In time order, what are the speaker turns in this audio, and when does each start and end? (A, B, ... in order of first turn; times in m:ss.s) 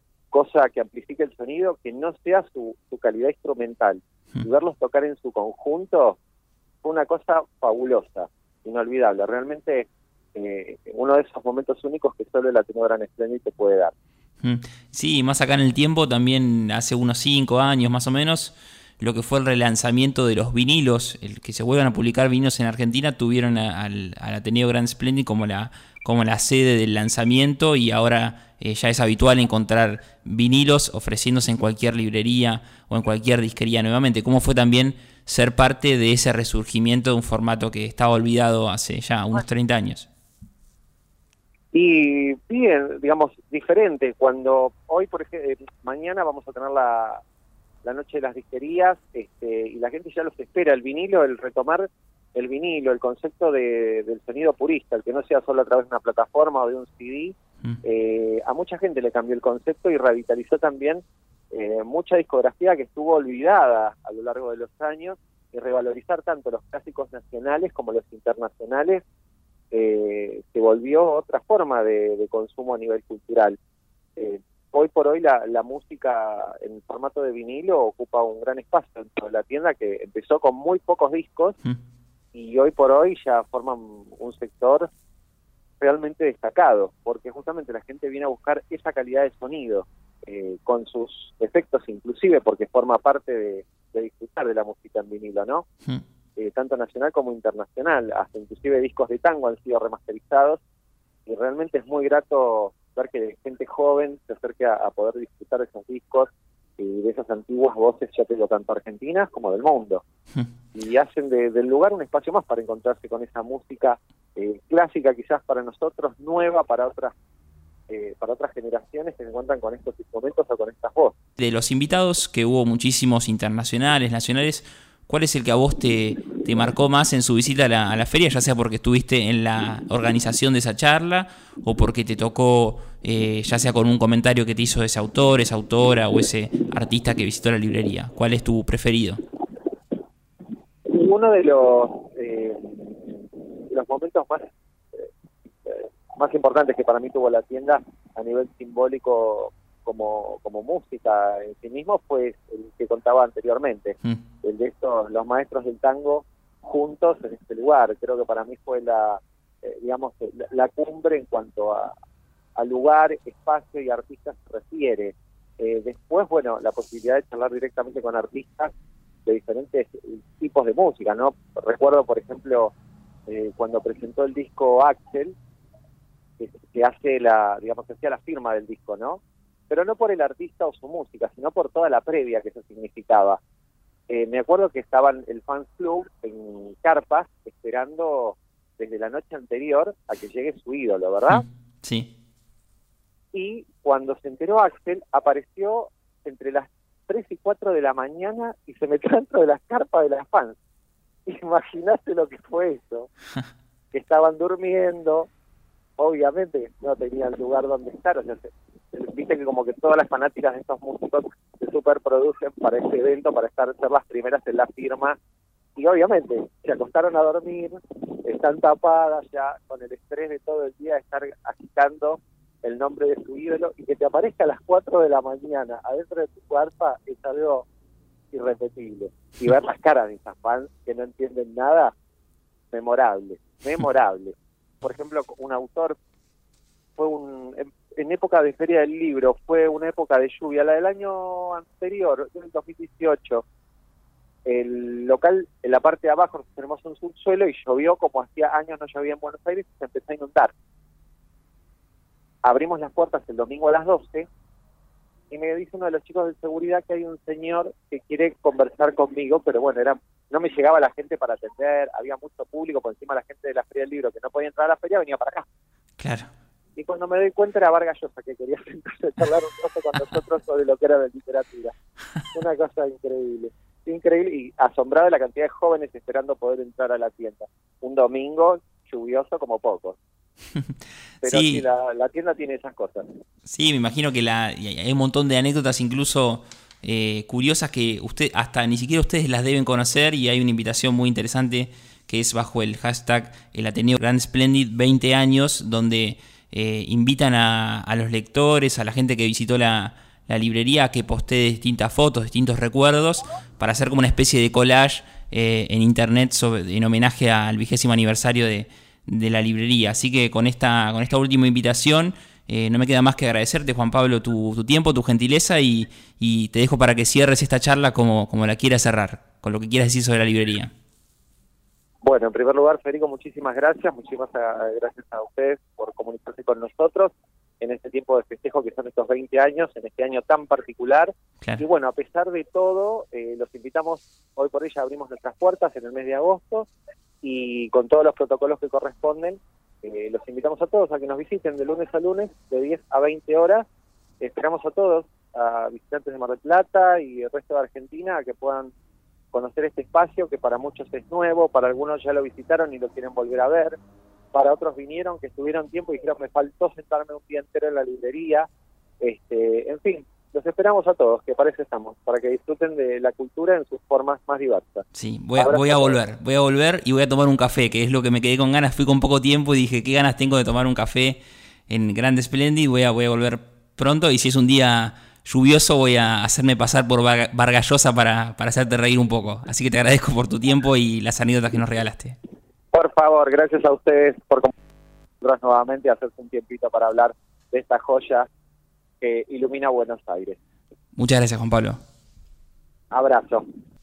0:00.3-0:06.2 A
0:06.8-0:13.9 A
0:14.4-0:40.1 B
0:41.7-0:47.2 A
0:47.8-1:09.0 A
1:09.7-1:13.6 A
1:14.2-1:21.6 A
1:22.3-1:24.9 A
1:25.8-1:35.6 A
1:36.4-1:40.6 A
1:41.3-1:50.0 A
1:50.8-1:57.1 A
1:57.9-2:01.2 A
2:01.4-2:19.2 B
2:20.9-2:25.1 A
2:25.6-2:41.9 A
2:42.6-2:48.7 A
2:49.3-2:52.7 A
2:53.3-2:55.4 A
2:56.4-3:03.4 A
3:04.1-3:11.4 A
3:11.3-3:12.1 B
3:13.3-3:20.6 A
3:21.3-3:23.1 A
3:23.9-3:25.3 A
3:26.0-3:35.2 A
3:35.8-3:47.7 A
3:48.3-3:51.9 A
3:52.7-3:56.0 A
3:57.0-4:03.4 A
4:04.4-4:10.5 A
4:12.4-4:14.3 A
4:15.3-4:25.5 A
4:26.0-4:26.3 B
4:26.8-4:31.7 A
4:32.3-4:40.0 A
4:40.6-4:41.6 B
4:41.2-4:43.0 A
4:43.5-5:20.7 B
5:22.0-5:36.7 A
5:37.2-5:43.7 A
5:44.2-5:48.7 A
5:49.3-5:53.8 A
5:54.3-5:58.5 A
5:59.0-6:04.8 A
6:05.0-6:22.2 B
6:05.4-6:06.0 A
6:22.7-6:24.5 A
6:25.2-6:28.3 A
6:29.0-6:30.4 A
6:31.0-6:31.8 B
6:32.9-6:33.5 A